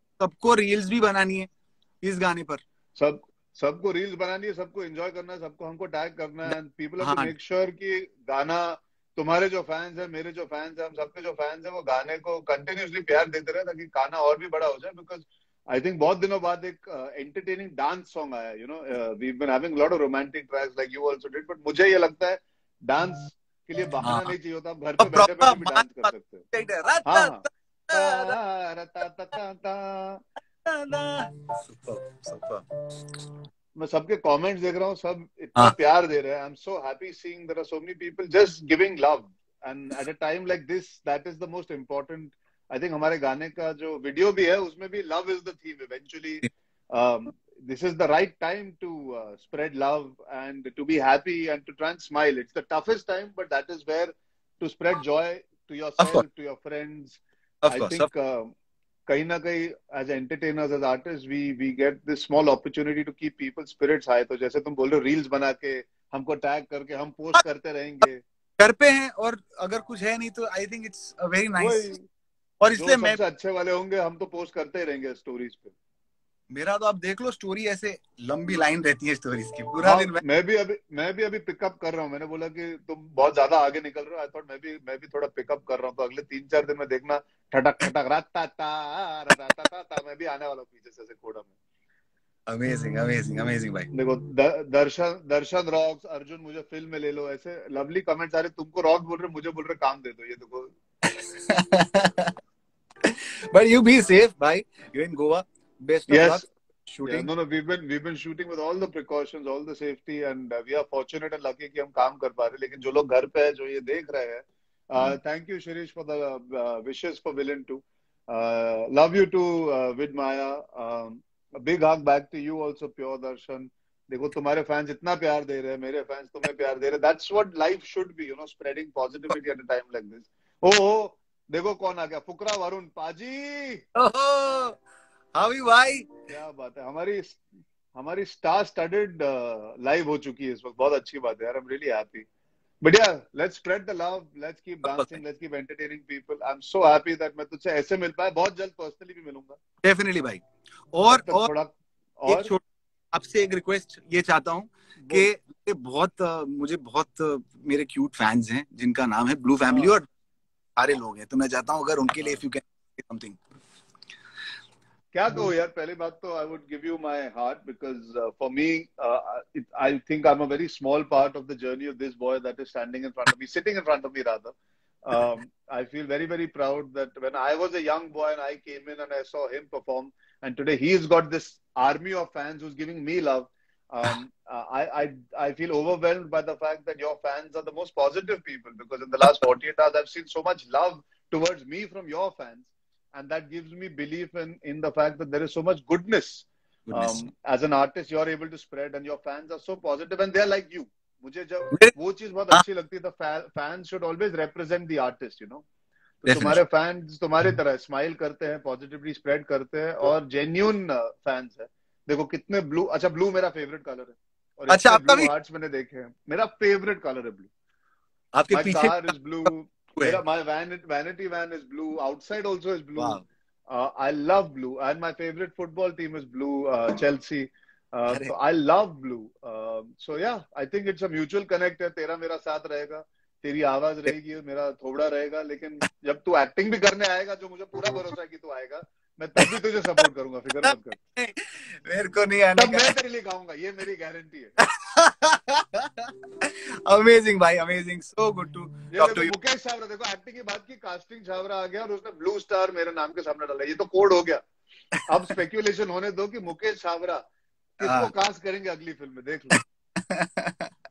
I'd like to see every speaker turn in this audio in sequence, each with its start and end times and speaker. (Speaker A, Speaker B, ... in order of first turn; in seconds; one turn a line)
Speaker A: 0.2-1.5
Speaker A: 2.0-2.6
Speaker B: 3.0-26.5
Speaker A: 7.0-7.3
Speaker A: 24.0-24.3
Speaker A: 25.0-28.4
Speaker B: 27.1-30.2
Speaker A: 30.6-32.6
Speaker B: 33.8-58.5
Speaker A: 56.0-56.2
Speaker A: 57.6-58.1
Speaker B: 59.1-68.2
Speaker A: 68.6-71.9
Speaker B: 71.6-72.1
Speaker A: 72.6-73.2
Speaker B: 72.8-75.7
Speaker A: 76.5-80.2
Speaker B: 79.8-91.5
Speaker A: 92.5-93.9
Speaker B: 93.9-100.7
Speaker A: 101.2-102.3
Speaker A: 103.0-107.3
Speaker B: 106.1-106.4
Speaker B: 107.0-133.8
Speaker A: 133.9-134.8
Speaker A: 135.3-136.1
Speaker B: 136.3-137.4
Speaker B: 137.9-142.3
Speaker B: 142.8-149.6
Speaker A: 144.8-145.1
Speaker A: 149.8-151.5
Speaker B: 151.1-152.5
Speaker A: 152.3-152.6
Speaker A: 153.1-160.1
Speaker B: 155.0-155.3
Speaker B: 159.7-159.9
Speaker A: 160.8-163.4
Speaker B: 165.1-205.6
Speaker A: 196.9-197.2
Speaker B: 206.2-217.5
Speaker A: 206.2-206.6
Speaker A: 214.7-215.3
Speaker A: 218.3-220.2
Speaker B: 218.5-241.0
Speaker A: 223.0-223.2
Speaker A: 240.6-242.9
Speaker B: 242.6-244.5
Speaker A: 244.8-249.3
Speaker B: 248.9-254.4
Speaker B: 255.1-257.2
Speaker B: 257.8-259.6
Speaker A: 257.8-258.1
Speaker A: 259.6-260.7